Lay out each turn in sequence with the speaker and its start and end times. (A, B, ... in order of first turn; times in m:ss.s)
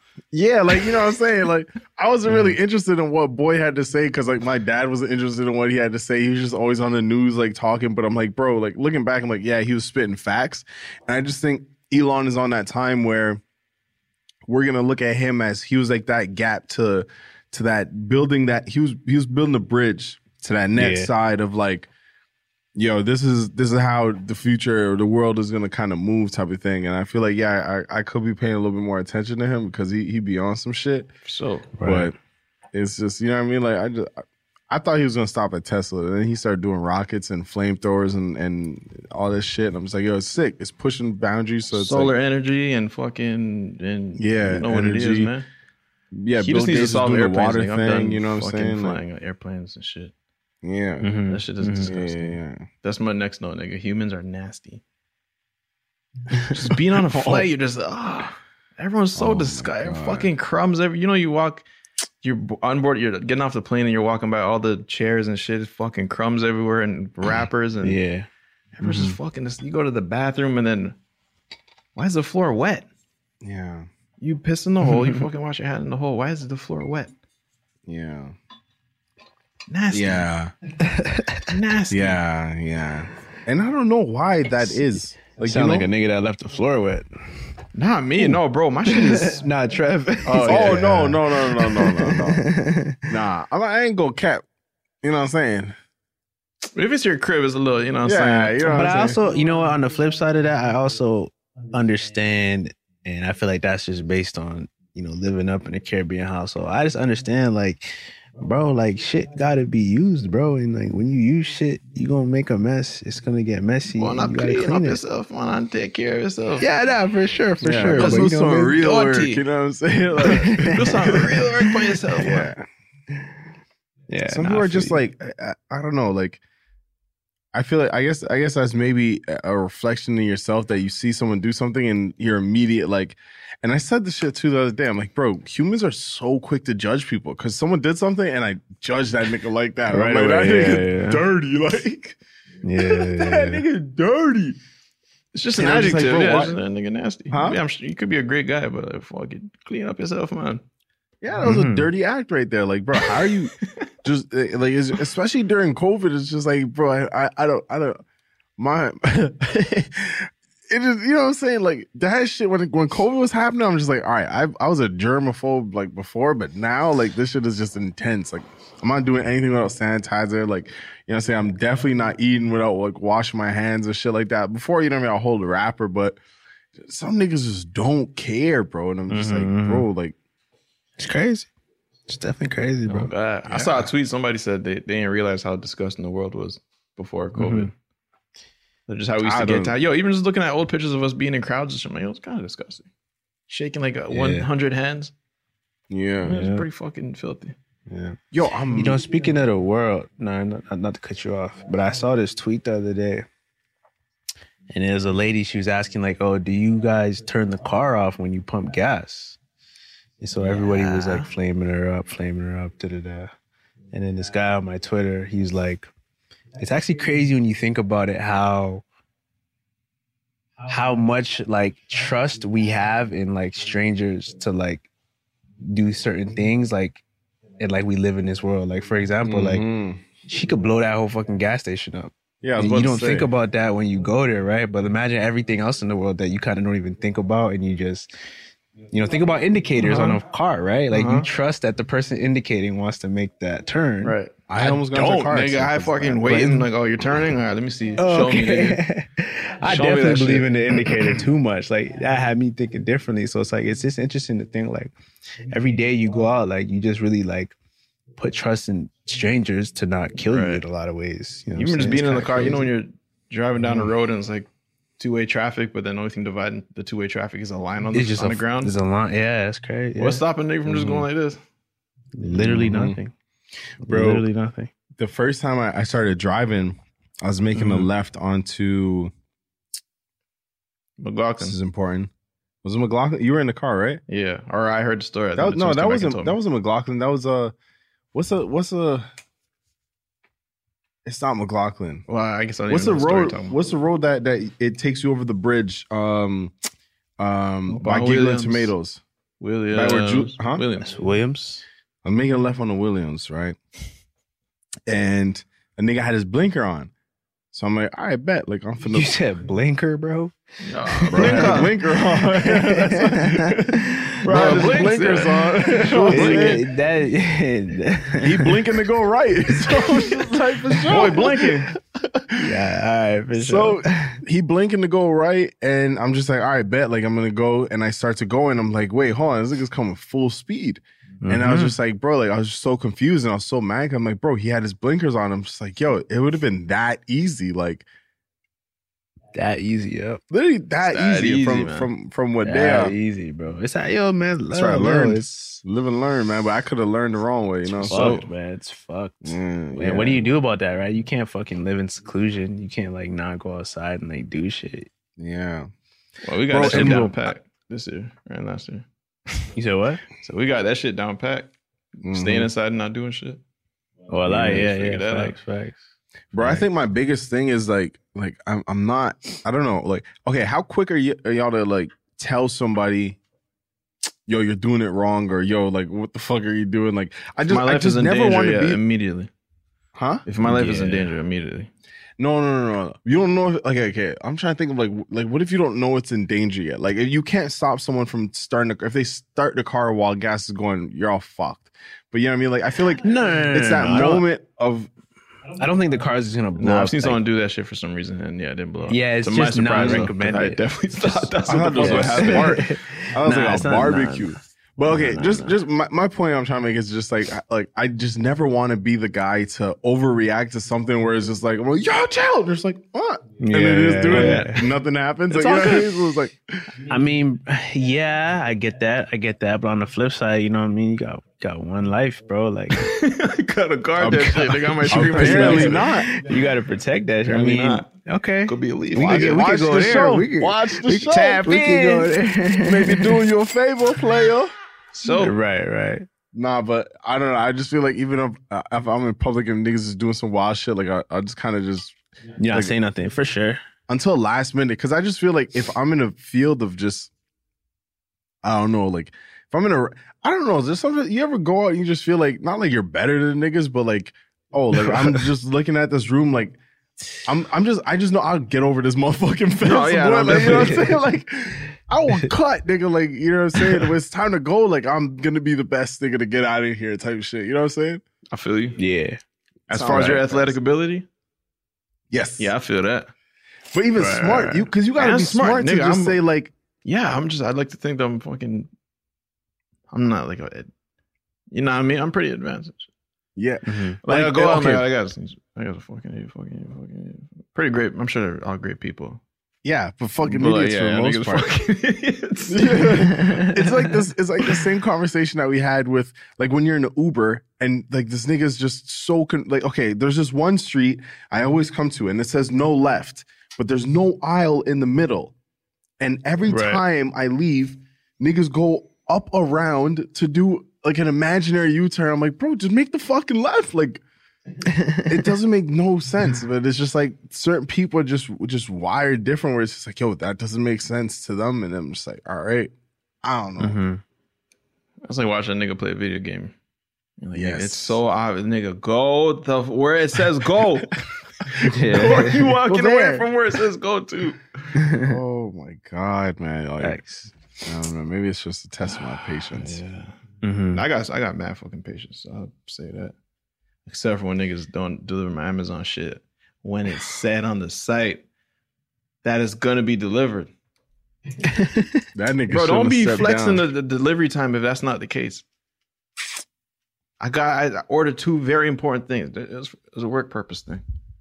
0:00.3-0:13.4 A
0:02.3-0:02.6 B
0:14.5-0:21.9 A
0:20.7-0:21.1 B
0:22.7-0:31.1 A
0:31.2-0:31.7 C
0:31.8-0:32.1 B
0:31.8-0:32.1 A
0:32.7-0:42.1 A
0:41.7-0:45.5 C
0:44.2-0:45.3 A
0:46.1-0:49.0 A
0:46.4-0:50.1 C
0:50.6-0:51.2 A
0:51.0-0:51.9 B
0:51.3-0:54.8 C
0:51.8-0:52.6 A
0:56.4-1:01.6 C
0:57.1-0:57.5 A
0:59.2-1:00.3 A
1:02.2-1:08.0 C
1:07.8-1:08.3 B
1:08.8-1:10.9 C
1:08.8-1:09.2 B
1:12.0-1:12.9 C
1:13.4-1:13.9 A
1:14.2-1:17.1 C
1:14.9-1:15.2 B
1:17.9-1:18.3 A
1:19.7-1:20.2 C
1:19.9-1:20.5 A
1:20.8-1:21.4 B
1:21.5-1:22.2 C
1:21.9-1:25.9 A
1:25.3-1:27.4 B
1:27.7-1:29.4 C
1:28.2-1:33.0 B
1:30.2-1:30.8 C
1:30.3-1:32.4 A
1:33.1-1:34.4 A
1:35.0-1:35.8 A
1:36.7-1:39.1 C
1:38.0-1:39.2 A
1:38.6-1:55.0 B
1:54.0-1:56.7 C
1:56.6-1:58.8 B
1:57.6-2:01.2 A
1:57.9-1:59.4 C
2:00.2-2:01.7 B
2:00.7-2:02.5 C
2:02.2-2:02.6 A
2:04.1-2:05.0 B
2:04.3-2:06.4 A
2:07.5-2:22.2 A
2:19.9-2:21.2 B
2:22.6-2:23.6 B
2:22.8-2:24.6 A
2:25.3-2:30.6 C
2:25.6-2:26.6 A
2:27.3-2:27.6 A
2:31.2-2:33.5 A
2:31.4-2:31.9 B
2:34.0-2:38.0 A
2:38.6-2:56.2 A
2:56.8-3:00.1 A
2:59.1-2:59.9 B
3:01.0-3:01.5 B
3:02.1-3:03.1 B
3:02.9-3:07.7 C
3:03.5-3:03.9 A
3:07.4-3:07.7 B
3:08.9-3:12.9 C
3:09.2-3:09.7 A
3:13.5-3:15.1 C
3:14.1-3:14.5 B
3:15.9-3:16.3 A
3:16.2-3:16.6 B
3:16.2-3:17.6 C
3:17.9-3:18.2 B
3:18.3-3:19.0 A
3:18.7-3:23.3 B
3:24.7-3:29.4 B
3:30.2-3:33.3 B
3:30.4-3:31.3 C
3:33.9-3:35.9 B
3:36.6-3:38.8 B
3:40.7-3:44.9 B
3:45.6-3:47.0 B
3:47.6-3:49.7 B
3:49.2-3:50.0 A
3:50.2-3:58.1 B
3:52.4-3:53.3 A
3:58.9-4:04.2 B
3:59.8-4:00.2 C
4:00.9-4:01.3 C
4:04.0-4:08.8 C
4:04.5-4:06.2 A
4:06.2-4:06.7 B
4:08.0-4:14.9 B
4:09.6-4:11.1 C
4:15.5-4:17.5 B
4:18.2-4:22.7 B
4:20.3-4:20.6 C
4:21.6-4:24.5 C
4:25.0-4:28.7 C
4:27.9-4:31.0 B
4:30.0-4:31.4 C
4:32.2-4:33.1 B
4:32.3-4:33.0 A
4:33.8-4:34.7 B
4:33.8-4:34.2 A
4:35.0-4:39.1 A
4:37.6-4:37.9 B
4:41.0-4:41.6 C
4:41.4-4:42.1 A
4:42.6-4:44.0 A
4:44.1-4:46.4 C
4:45.4-4:47.5 A
4:48.1-4:49.0 A
4:51.0-4:52.0 A
4:52.1-4:53.6 C
4:52.7-4:56.5 A
4:57.2-4:59.0 A
4:57.7-4:58.7 C
4:59.4-5:00.9 C
4:59.7-5:00.6 A
5:00.8-5:01.6 B
5:02.0-5:03.6 A
5:04.9-5:06.9 A
5:07.5-5:09.1 A
5:08.9-5:10.3 B
5:10.6-5:11.8 C
5:10.9-5:14.8 B
5:11.1-5:16.6 A
5:14.2-5:16.6 C
5:15.6-5:18.6 B
5:18.2-5:21.5 A
5:19.5-5:21.5 B
5:20.9-5:21.7 C
5:22.0-5:22.5 A
5:22.4-5:24.2 B
5:23.3-5:37.9 A
5:31.2-5:31.8 B
5:39.3-5:40.2 B
5:40.3-5:42.9 A
5:40.8-5:41.9 C
5:42.4-5:45.6 B
5:44.5-5:48.2 A
5:47.7-5:54.9 B
5:47.9-5:48.3 C
5:49.2-5:50.3 A
5:55.2-5:55.7 A
5:56.2-5:58.9 C
5:56.5-5:57.2 A
5:56.6-5:57.1 B
5:59.5-6:00.0 B
6:00.2-6:01.5 C
6:02.0-6:02.5 A
6:02.1-6:03.4 C
6:04.1-6:05.8 B
6:04.3-6:05.4 C
6:04.3-6:04.6 A
6:06.3-6:13.2 A
6:06.4-6:06.6 B
6:14.3-6:18.8 A
6:17.4-6:19.3 C
6:20.0-6:20.2 A
6:20.2-6:21.7 C
6:20.4-6:21.1 B
6:22.2-6:34.9 A
6:32.9-6:34.2 B
6:35.6-6:37.2 B
6:36.6-6:42.7 C
6:38.9-6:45.5 B
6:39.8-6:40.1 A
6:41.4-6:56.6 A
6:53.4-6:54.7 B
6:54.1-6:54.5 C
6:55.3-6:55.9 B
6:56.9-7:02.9 B
7:02.7-7:05.9 C
7:04.0-7:04.3 A
7:04.0-7:13.2 B
7:04.9-7:06.1 A
7:07.2-7:07.9 C
7:08.4-7:09.4 C
7:09.0-7:14.5 A
7:14.9-7:15.4 C
7:15.1-7:16.1 B
7:16.3-7:22.0 A
7:22.4-7:23.6 B
7:23.9-7:27.1 A
7:28.4-7:36.6 A
7:34.7-7:35.2 B
7:37.2-7:48.0 A
7:39.6-7:40.9 C
7:40.3-7:40.9 B
7:43.6-7:43.9 B
7:48.3-7:48.8 C
7:48.8-7:49.2 B
7:49.7-7:50.6 A
7:49.7-7:51.0 C
7:52.1-7:52.5 A
7:52.4-7:53.1 C
7:53.7-7:56.5 A
7:54.0-7:54.5 B
7:54.9-7:56.2 C
7:56.8-7:58.7 C
7:59.9-8:00.7 C
8:01.5-8:02.9 C
8:03.4-8:04.7 A
8:03.6-8:04.8 B
8:04.0-8:09.2 C
8:09.6-8:11.5 A
8:10.2-8:13.0 C
8:12.5-8:25.3 A
8:13.0-8:13.7 B
8:26.0-8:34.0 A
8:26.5-8:26.8 B
8:34.6-8:35.3 B
8:35.1-8:42.7 A
8:43.2-8:43.8 A
8:43.6-8:44.0 B
8:45.0-8:46.5 C
8:47.2-8:51.0 C
8:47.3-8:48.0 A
8:51.5-8:54.4 C
8:51.6-8:52.6 B
8:52.6-8:53.3 A
8:54.7-8:55.1 B
8:55.0-8:57.0 A
8:56.8-8:57.3 B
8:57.6-8:59.8 A
8:59.3-9:00.1 C
9:00.4-9:00.8 B
9:00.7-9:03.1 C
9:03.9-9:08.2 C
9:09.2-9:10.5 C
9:11.4-9:12.0 B
9:12.1-9:13.6 A
9:12.5-9:15.4 C
9:17.2-9:20.8 C